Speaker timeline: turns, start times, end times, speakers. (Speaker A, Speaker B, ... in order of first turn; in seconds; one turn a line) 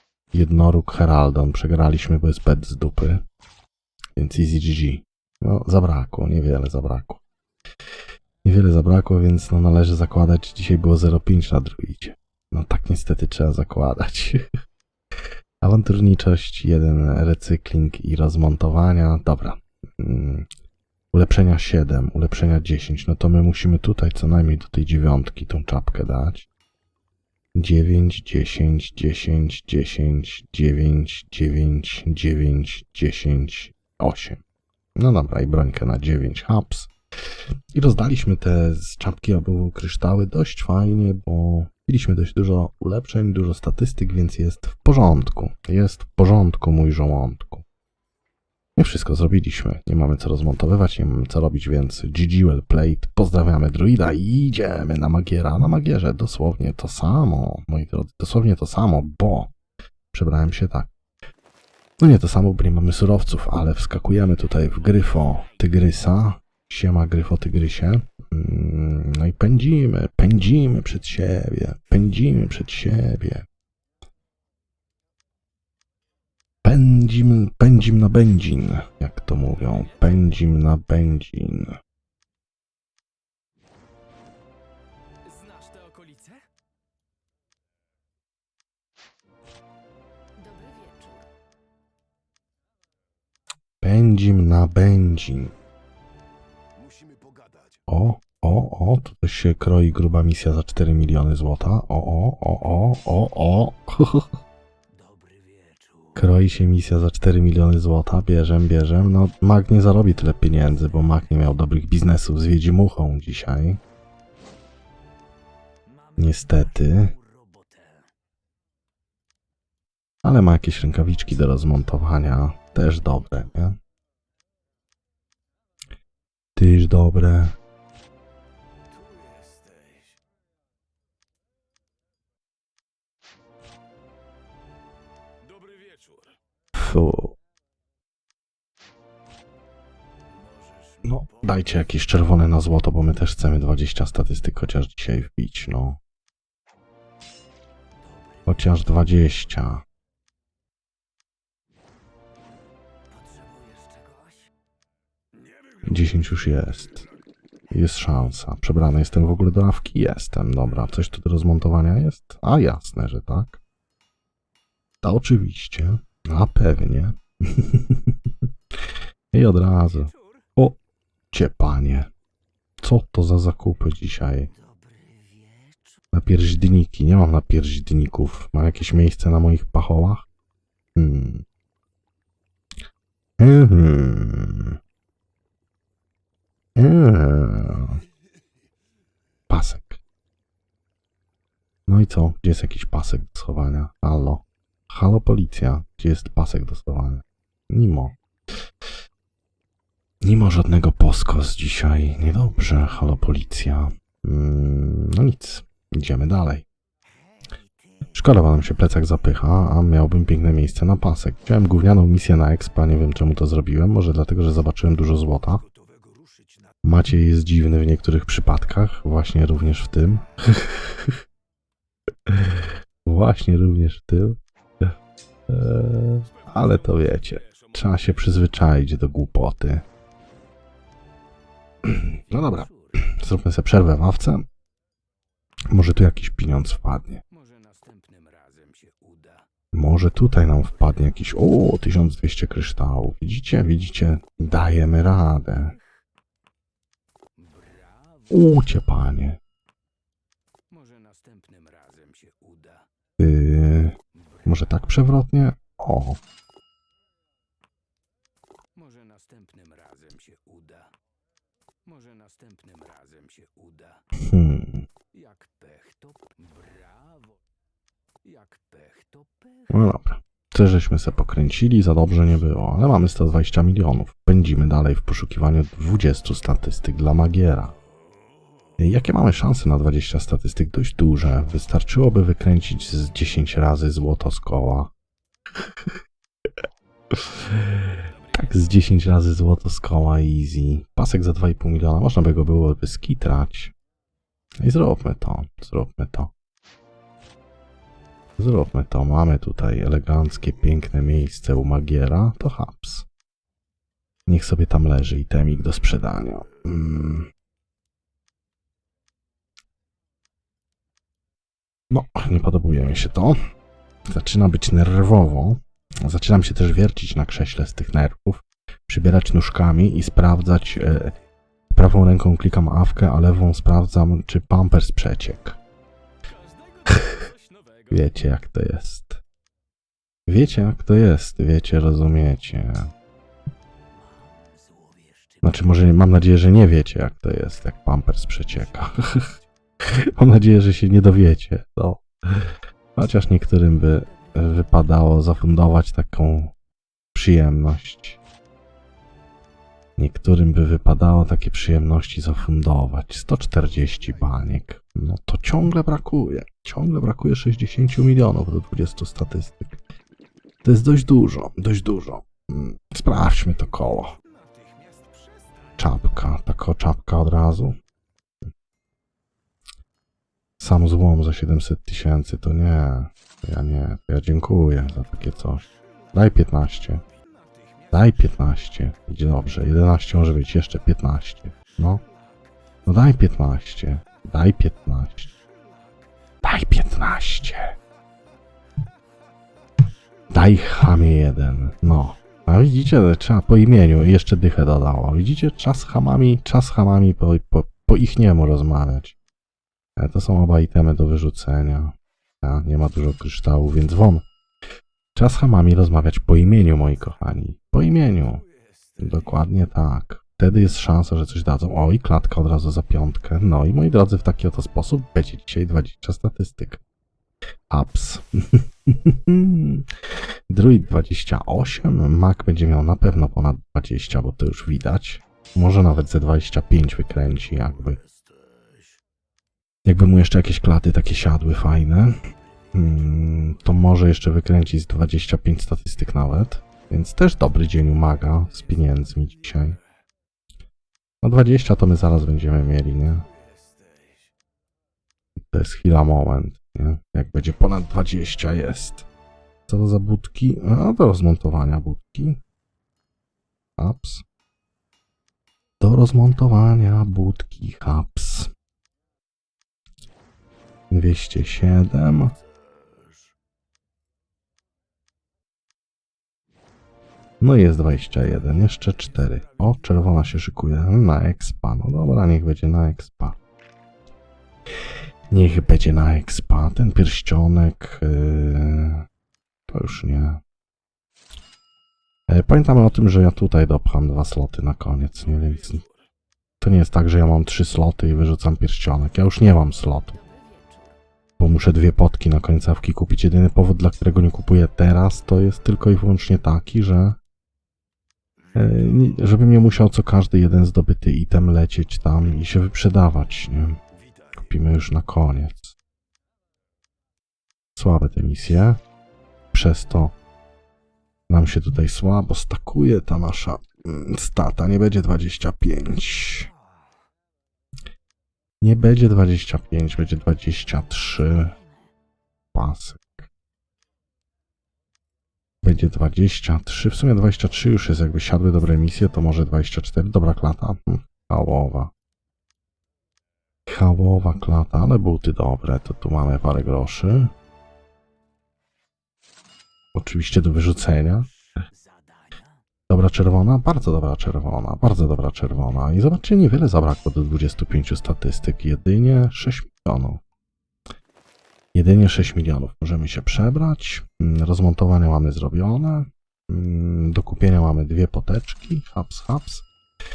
Speaker A: 0.3-3.2
Speaker A: 4.2-7.2
Speaker A: 8.4-14.4
Speaker A: 15.6-20.5
Speaker A: 21.1-26.5
Speaker A: 27.6-34.4
Speaker A: 35.0-36.9
Speaker A: 37.7-47.6
Speaker A: 48.8-59.5
Speaker A: 60.1-60.9
Speaker A: 62.0-73.5
Speaker B: 64.8-65.5
Speaker A: 76.6-81.8
Speaker B: 79.6-80.4
Speaker B: 85.2-86.5
Speaker B: 90.4-91.3
Speaker A: 93.8-95.5
Speaker B: 96.8-97.8
Speaker A: 97.9-104.3
Speaker B: 104.9-106.4
Speaker A: 106.2-113.8
Speaker B: 110.8-111.2
Speaker B: 115.9-118.1
Speaker A: 116.2-117.1
Speaker A: 120.2-123.8
Speaker A: 126.6-127.5
Speaker B: 128.9-130.2
Speaker B: 135.4-136.4
Speaker A: 136.8-137.4
Speaker B: 140.3-141.7
Speaker A: 141.1-146.0
Speaker B: 148.0-148.8
Speaker A: 148.5-149.8
Speaker B: 153.1-154.5
Speaker B: 155.3-156.9
Speaker A: 155.8-157.1
Speaker A: 157.7-163.6
Speaker A: 165.0-168.2
Speaker A: 169.3-170.8
Speaker B: 169.7-170.5
Speaker A: 171.3-172.1
Speaker A: 172.8-174.5
Speaker B: 174.5-176.1
Speaker A: 176.1-180.3
Speaker A: 181.0-181.4
Speaker A: 183.4-184.8
Speaker A: 186.8-188.0
Speaker A: 189.5-190.0
Speaker A: 191.9-198.2
Speaker A: 200.2-206.7
Speaker B: 207.1-208.1
Speaker A: 208.1-215.6
Speaker B: 215.5-216.8
Speaker A: 216.8-221.2
Speaker A: 222.3-224.9
Speaker A: 225.5-229.8
Speaker B: 226.2-228.3
Speaker A: 231.8-234.5
Speaker B: 232.0-233.1
Speaker A: 235.7-237.2
Speaker B: 237.3-239.5
Speaker A: 239.7-245.8
Speaker B: 240.9-241.1
Speaker B: 247.4-248.6
Speaker A: 248.3-249.4
Speaker B: 250.7-252.9
Speaker A: 253.2-256.2
Speaker B: 254.1-255.0
Speaker B: 258.8-260.9
Speaker B: 261.8-264.1
Speaker A: 264.2-264.9
Speaker B: 265.1-267.4
Speaker B: 268.2-269.8
Speaker A: 269.7-277.8
Speaker A: 278.8-284.9
Speaker A: 287.1-293.7
Speaker B: 287.9-288.9
Speaker A: 294.6-296.3
Speaker A: 298.4-303.1
Speaker A: 304.3-307.3
Speaker A: 311.9-313.4
Speaker A: 314.1-321.1
Speaker A: 321.7-325.6
Speaker B: 326.2-328.4
Speaker A: 327.9-329.2
Speaker A: 330.3-332.9
Speaker B: 333.9-335.9
Speaker A: 335.4-339.3
Speaker B: 338.4-339.5
Speaker A: 339.8-346.5
Speaker B: 344.0-344.9
Speaker A: 347.1-348.2
Speaker A: 350.0-359.8
Speaker B: 353.6-354.5
Speaker A: 360.6-364.2
Speaker B: 363.5-365.9
Speaker A: 365.8-367.8
Speaker A: 370.6-377.0
Speaker B: 375.4-376.2
Speaker B: 377.0-379.0
Speaker A: 377.9-382.0
Speaker B: 381.6-383.0
Speaker A: 382.9-385.3
Speaker B: 385.2-386.2
Speaker A: 386.4-387.8
Speaker B: 389.8-390.3
Speaker A: 390.3-399.2
Speaker B: 392.1-392.5
Speaker A: 400.0-404.3
Speaker A: 405.1-408.4
Speaker B: 406.9-407.3
Speaker B: 408.1-409.5
Speaker A: 409.0-416.8
Speaker A: 417.7-419.9
Speaker A: 420.5-428.0
Speaker B: 427.5-429.0
Speaker A: 429.9-432.2
Speaker B: 432.2-433.8
Speaker A: 432.7-439.8
Speaker B: 438.1-439.8
Speaker A: 441.2-443.3
Speaker B: 443.1-444.3
Speaker A: 445.4-449.1
Speaker A: 449.7-452.4
Speaker A: 453.8-454.2
Speaker A: 455.8-458.5
Speaker A: 460.9-462.4
Speaker B: 462.8-463.2
Speaker A: 467.4-473.4
Speaker B: 469.1-469.6
Speaker A: 475.3-479.1
Speaker A: 479.7-480.4
Speaker A: 482.3-485.8
Speaker B: 485.1-486.1
Speaker A: 486.6-490.2
Speaker B: 490.1-491.0
Speaker A: 491.4-497.2
Speaker B: 498.4-499.4
Speaker A: 498.6-503.8
Speaker B: 503.9-504.5
Speaker A: 504.4-505.8
Speaker A: 507.8-508.8
Speaker A: 509.5-510.1
Speaker A: 511.3-516.5
Speaker B: 516.5-516.9
Speaker A: 518.6-521.5
Speaker B: 521.1-521.9
Speaker A: 522.5-523.3
Speaker A: 525.6-531.9
Speaker A: 533.7-537.3
Speaker A: 540.0-541.3
Speaker B: 540.9-542.6
Speaker A: 542.9-550.2
Speaker A: 551.7-559.7